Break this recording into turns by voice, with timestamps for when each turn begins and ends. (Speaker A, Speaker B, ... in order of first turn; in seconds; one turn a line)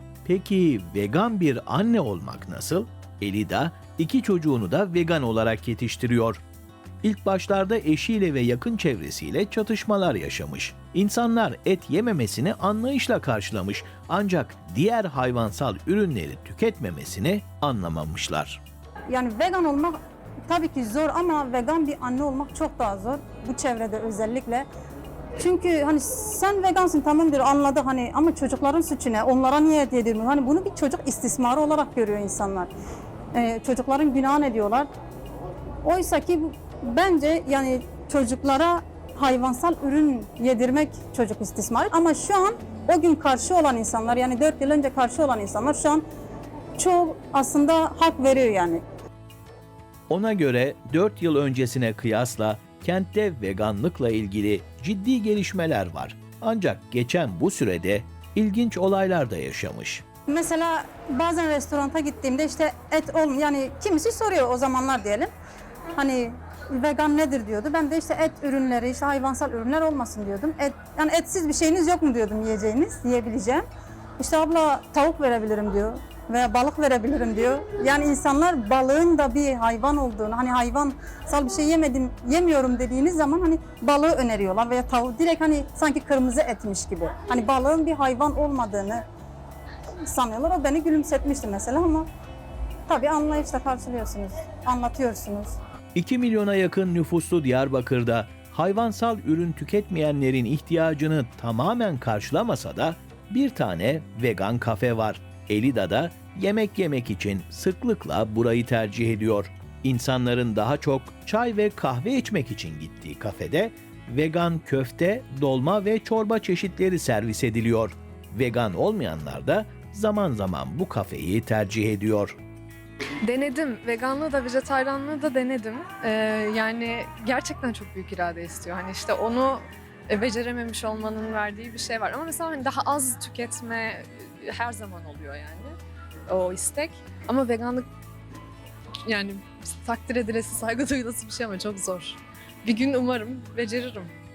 Speaker A: 0.2-6.4
Speaker A: 7.0-18.6
Speaker B: 19.1-19.9
Speaker B: 20.5-24.6
Speaker B: 25.4-32.7
Speaker B: 33.3-34.9
Speaker B: 35.8-46.0
Speaker B: 46.8-48.8
Speaker A: 50.1-60.0
Speaker B: 60.3-65.3
Speaker B: 66.0-73.6
Speaker B: 74.2-89.0
Speaker B: 90.1-92.1
Speaker B: 92.9-95.5
Speaker A: 95.9-122.4
Speaker C: 123.3-135.8
Speaker C: 136.3-137.9
Speaker C: 139.0-144.1